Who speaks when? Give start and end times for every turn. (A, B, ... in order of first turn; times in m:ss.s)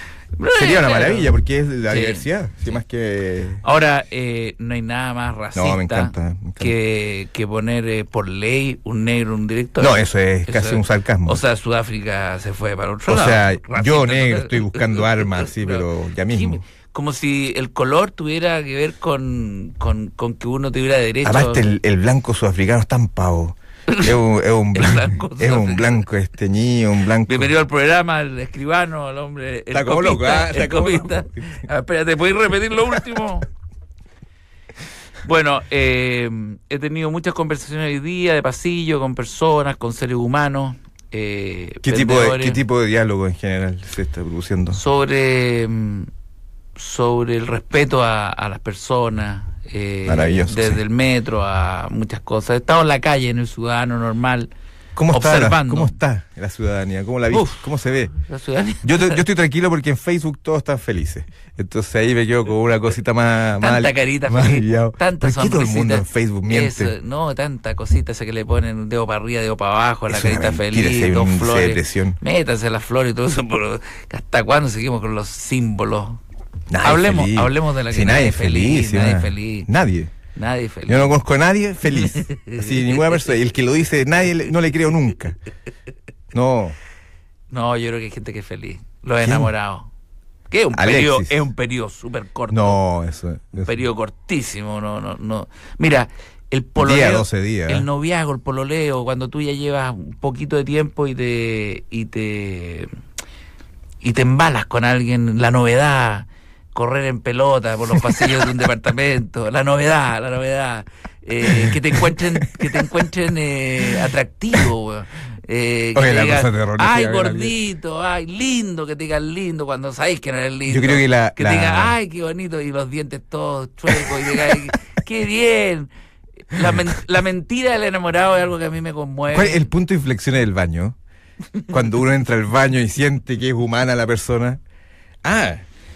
0:00.4-0:01.3 A
0:00.5-0:03.6 B
0:01.9-0:02.3 A
0:03.6-0:21.6 A
0:05.5-0:06.7 B
0:09.8-0:11.4 B
0:13.1-0:16.6 B
0:21.2-0:27.5 B
0:23.9-0:24.1 A
0:24.7-0:26.0 A
0:27.2-0:33.5 A
0:29.7-0:31.4 B
0:35.2-0:42.6 A
0:41.8-0:44.8 B
0:44.7-0:46.1 A
0:46.8-0:54.5 A
0:50.0-0:50.8 B
0:55.0-0:58.1 B
0:55.1-0:56.0 A
0:57.3-0:59.2 A
0:58.8-1:06.9 B
1:03.6-1:16.2 A
1:10.1-1:12.2 B
1:16.7-1:20.1 B
1:16.8-1:19.7 A
1:20.3-1:21.1 A
1:20.9-1:25.4 B
1:21.9-1:23.2 A
1:26.3-1:26.8 B
1:27.5-1:29.9 A
1:29.2-1:29.5 B
1:30.5-1:32.8 A
1:30.7-1:31.4 B
1:32.5-1:33.7 B
1:33.6-1:42.9 A
1:36.8-1:37.9 B
1:44.0-2:05.9 A
1:47.9-1:48.3 B
1:51.4-1:52.9 B
1:55.9-1:57.5 B
2:00.7-2:01.9 B
2:03.9-2:04.7 B
2:06.5-2:09.7 A
2:06.6-2:06.9 B
2:09.3-2:11.0 B
2:11.7-2:14.6 B
2:15.2-2:15.6 B